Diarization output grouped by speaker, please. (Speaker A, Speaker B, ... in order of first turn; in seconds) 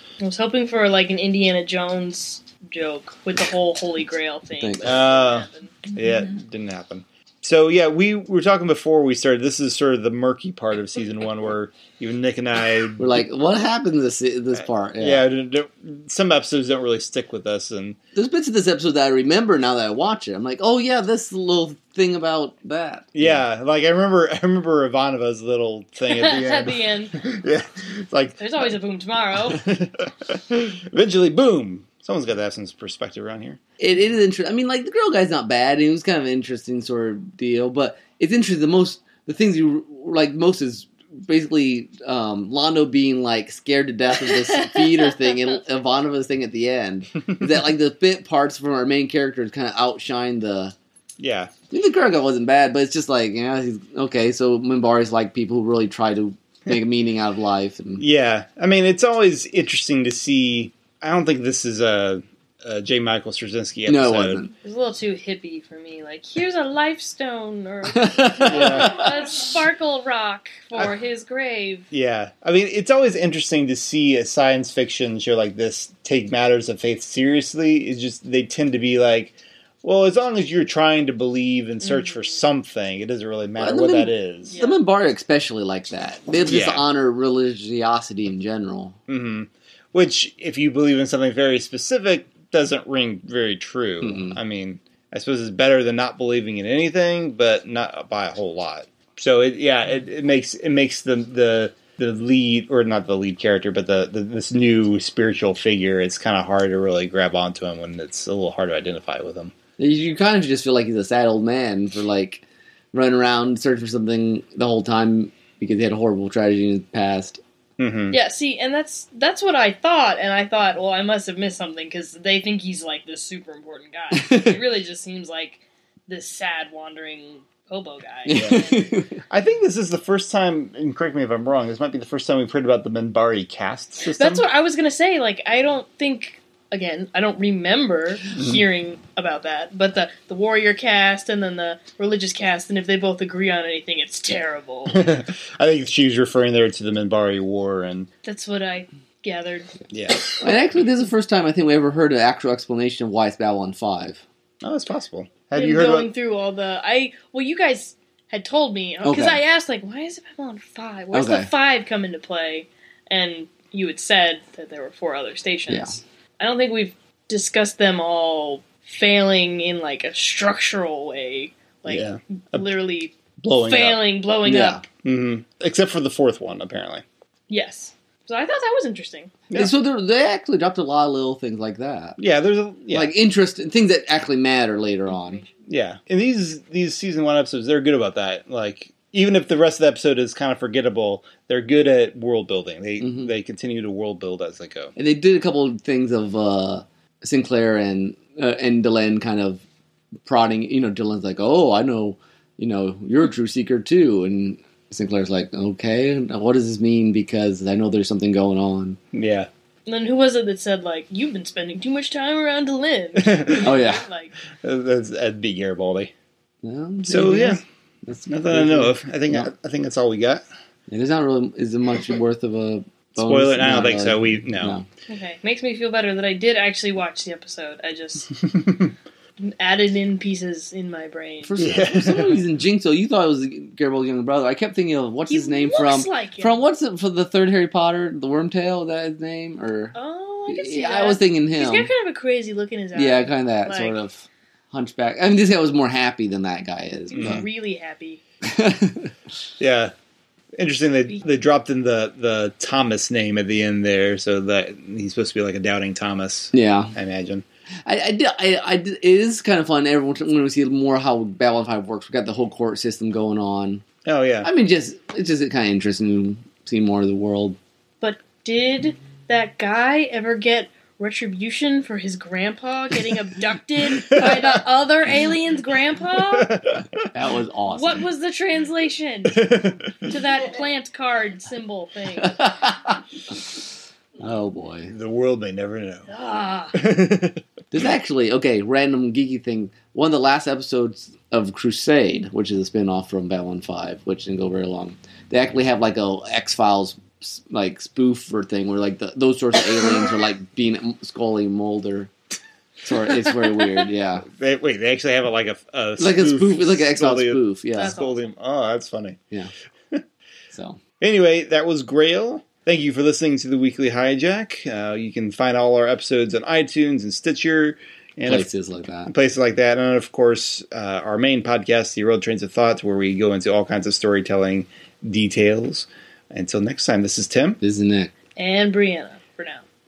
Speaker A: 0.2-5.8, 26.1-27.2, 28.4-29.6, 44.2-45.6, 64.6-71.9, 81.8-82.4, 84.5-84.8, 118.1-128.9, 134.0-145.0, 148.2-149.9, 155.5-174.8, 177.5-179.3, 185.1-185.5, 209.9-214.3, 225.1-228.3, 229.4-231.6, 235.3-236.6, 239.9-244.0, 247.1-248.2, 268.0-276.5, 277.6-282.5, 286.1-286.7, 303.2-303.9, 307.8-308.3, 328.4-329.6
Speaker B: 4.6-5.0, 13.0-15.2, 18.1-23.4, 33.8-50.7, 51.7-58.0, 63.9-64.5, 68.0-69.0, 83.6-89.0, 94.0-94.4, 109.8-117.4, 124.1-124.6, 128.2-129.1, 150.4-154.2, 159.0-159.4, 161.1-161.5, 165.7-165.9, 174.4-174.8, 179.5-182.2, 182.9-185.4, 193.0-193.3, 194.9-199.6, 200.2-209.0, 213.6-214.0, 216.6-219.5, 220.9-224.8, 231.4-239.9, 240.5-241.9, 242.9-247.4, 248.4-249.1, 256.5-256.9, 257.9-263.8, 264.4-267.6, 277.1-278.0, 282.2-283.0, 284.2-284.9, 287.7-302.1, 302.8-304.2, 306.0-308.0, 310.5-310.8, 318.2-319.1, 327.6-328.1
Speaker C: 4.8-13.2, 14.6-18.0, 23.1-28.7, 29.4-33.6, 51.2-51.5, 58.0-64.4, 68.5-69.1, 71.9-84.6, 86.5-86.9, 89.1-109.5, 117.8-118.2, 128.3-128.6, 129.3-134.4, 144.9-148.1, 149.9-150.4, 154.6-156.1, 171.9-172.7, 173.4-174.0, 175.0-177.0, 182.2-183.1, 185.6-194.9, 209.1-209.5, 213.2-213.8, 214.6-216.1, 217.0-217.6, 218.3-220.4, 223.2-224.8, 228.4-228.9, 231.6-232.4, 247.1-247.4, 249.6-249.9, 250.6-257.4, 264.0-264.5, 273.9-274.3, 276.3-277.0, 279.4-280.0, 284.9-286.1, 286.7-287.9, 304.3-309.2, 311.0-318.5, 319.0-327.6